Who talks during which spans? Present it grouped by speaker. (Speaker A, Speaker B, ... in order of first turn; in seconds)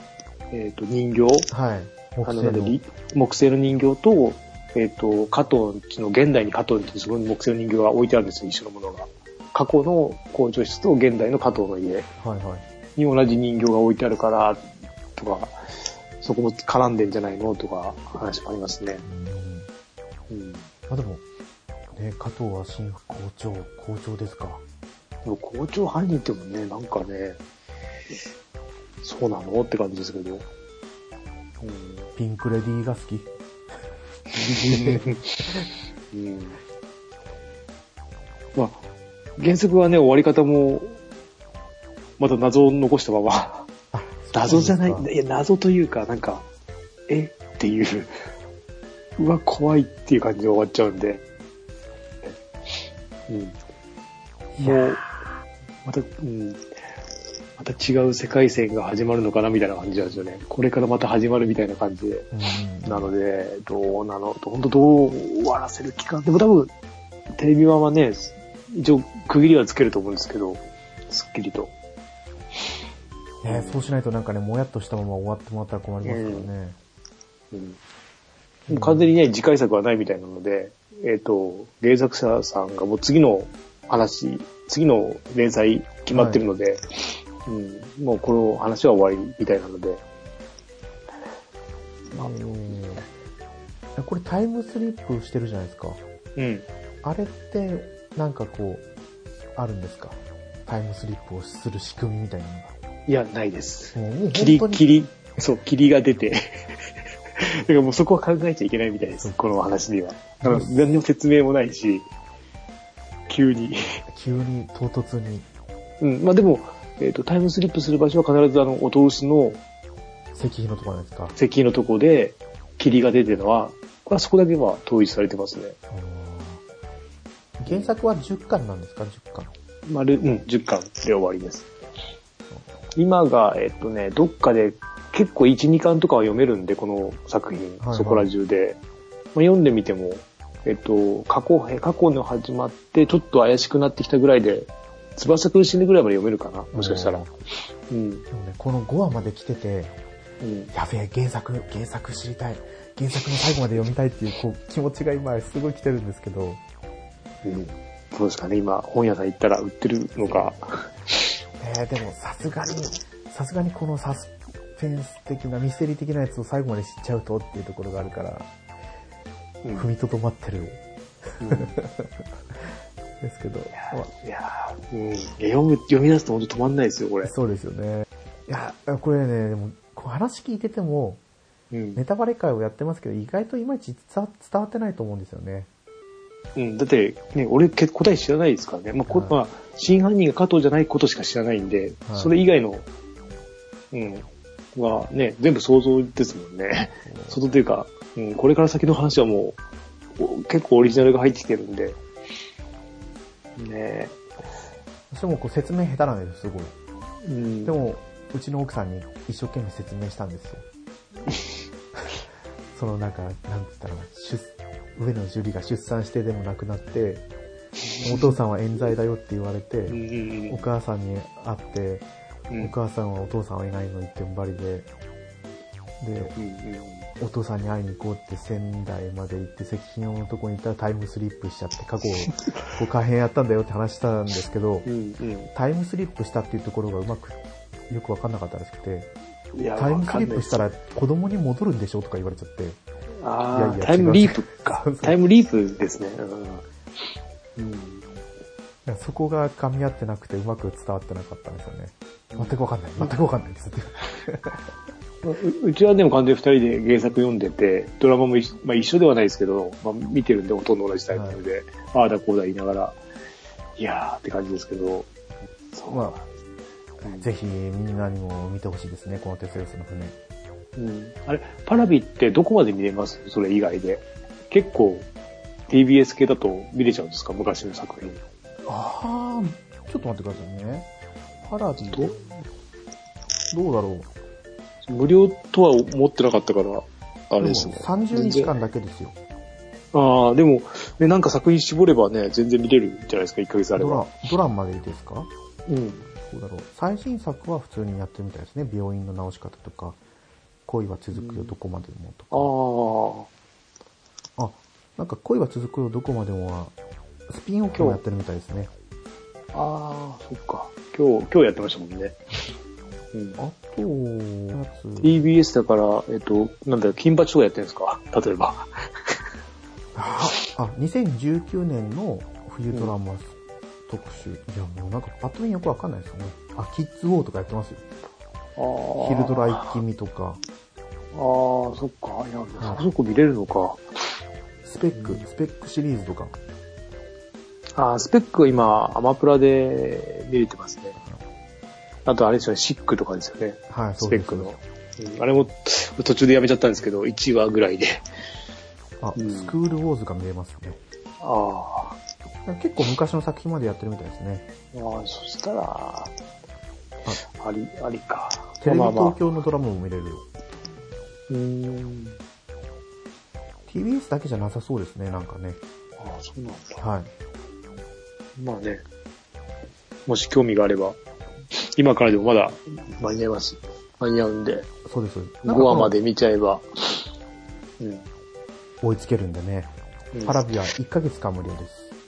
Speaker A: 0.5-1.5, 2.2-12.1, 13.0-14.6, 15.2-15.6, 16.2-19.0, 20.3-20.7, 25.2-27.4, 29.0-30.4, 31.6-32.1, 34.3-35.5, 36.1-36.6, 38.5-38.8, 39.4-41.0, 42.2-43.7, 44.3-46.4, 47.1-48.1, 49.2-51.2, 53.3-53.5, 54.6-55.1, 55.8-56.7, 57.6-62.3, 62.8-66.7, 67.3-71.7, 73.4-73.9, 76.0-76.5, 77.5-77.8, 78.7-86.8, 87.4-90.0, 96.3-96.7, 103.1-112.1, 113.3-114.0, 116.0-119.6, 121.3-125.8, 127.7-127.9, 129.8-131.7, 132.9-138.8, 139.3-147.3, 147.9-148.2, 150.4-150.7, 157.4-160.9, 171.4-171.7, 173.7-177.3, 181.7-182.0, 186.6-192.8, 193.9-199.6, 200.2-202.0, 203.6-204.2, 207.2-207.8, 217.9-218.3, 219.9-220.7, 226.3-227.1, 234.8-235.5, 239.5-240.6, 243.2-246.6, 247.6-248.1, 252.3-253.1, 255.2-263.0, 263.8-265.1, 265.7-266.2, 270.8-275.1, 275.7-278.2, 281.8-282.1, 284.9-288.5, 289.9-294.1, 295.7-296.1, 301.1-301.5, 302.3-303.3, 307.7-308.0, 309.5-312.2, 313.1-313.4, 315.0-318.7, 328.6-329.8, 331.1-333.8, 334.9-335.2, 337.8-341.0, 342.1-348.0, 349.1-349.5, 351.2-352.0, 354.7-356.1, 357.2-359.2, 361.3-362.2, 366.0-366.8, 368.4-368.8, 370.1-371.0, 371.5-374.7, 375.4-377.0, 377.8-378.0, 380.1-380.4
Speaker B: 1.5-2.8, 12.2-12.6, 19.0-19.7, 20.9-21.2, 21.9-24.6, 32.1-33.3, 34.6-35.0, 43.9-45.1, 54.5-55.0, 62.3-63.1, 73.4-76.8, 78.7-79.1, 86.1-86.4, 92.1-93.0, 94.0-96.0, 97.0-98.8, 99.5-102.7, 103.9-104.8, 110.4-110.9, 114.1-115.5, 120.3-121.3, 125.9-126.6, 127.6-129.5, 137.8-138.3, 146.7-147.3, 148.3-149.9, 150.7-156.6, 160.2-160.5, 161.6-168.5, 169.7-174.1, 177.2-181.2, 181.9-185.7, 189.1-189.4, 192.1-192.3, 197.1-197.4, 205.1-206.7, 207.6-210.6, 212.7-217.2, 218.0-222.1, 222.6-224.9, 226.0-226.3, 227.2-234.9, 235.5-237.4, 237.9-239.1, 239.8-242.8, 243.5-245.2, 248.8-254.6, 261.1-261.4, 265.9-266.2, 267.0-270.1, 278.6-280.9, 281.4-282.2, 283.5-284.1, 287.4-289.1, 293.8-295.3, 296.3-300.0, 300.6-302.5, 304.4-306.7, 307.3-308.7, 313.4-315.3, 319.9-323.3, 323.9-327.8, 329.0-330.4, 332.6-332.8, 334.6-336.4, 343.7-344.6, 349.0-350.8, 352.4-354.4, 358.6-360.2, 363.7-365.6, 366.8-367.1, 374.8-375.9, 378.8-379.7, 380.2-381.9